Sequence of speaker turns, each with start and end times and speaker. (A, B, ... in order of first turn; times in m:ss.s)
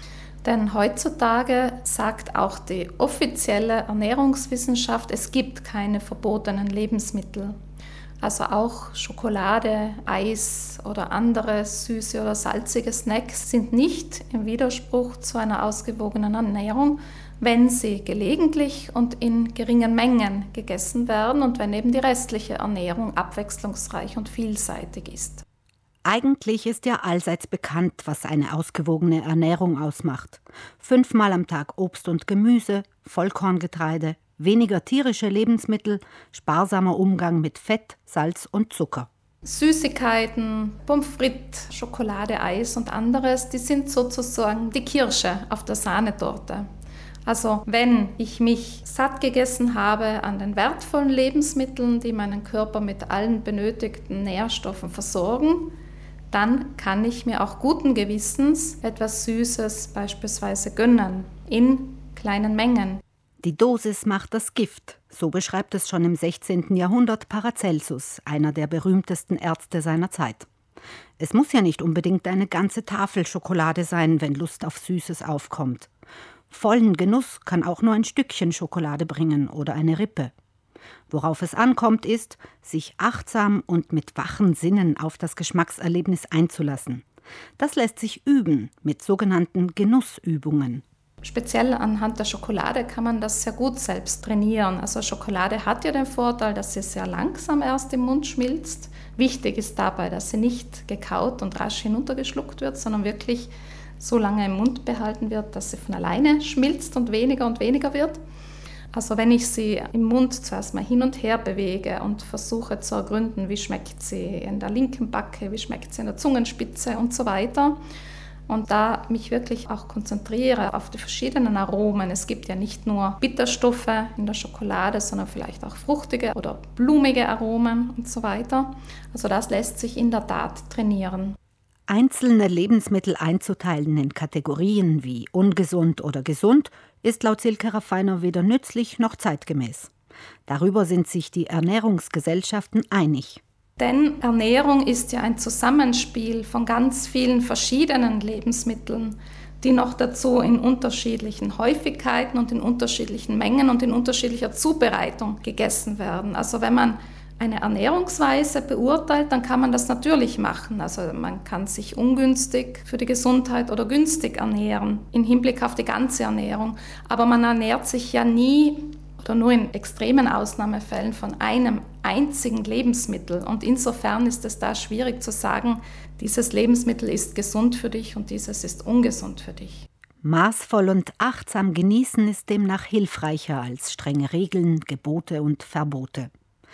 0:00.4-0:07.5 A
0:08.2-0:25.4 A
0:26.0-0:39.1 B
0:39.4-0:46.6 A
0:47.2-0:55.7 A
0:56.3-1:03.0 A
1:03.4-1:10.5 B
1:11.2-1:15.9 B
1:16.5-1:20.3 B
1:21.1-1:27.0 B
1:27.6-1:30.8 B
1:31.2-1:48.2 A
1:48.9-1:57.8 A
1:58.5-2:11.4 A
2:11.9-2:19.9 B
2:20.5-2:23.4 B
2:23.8-2:59.8 A
3:00.2-3:06.3 B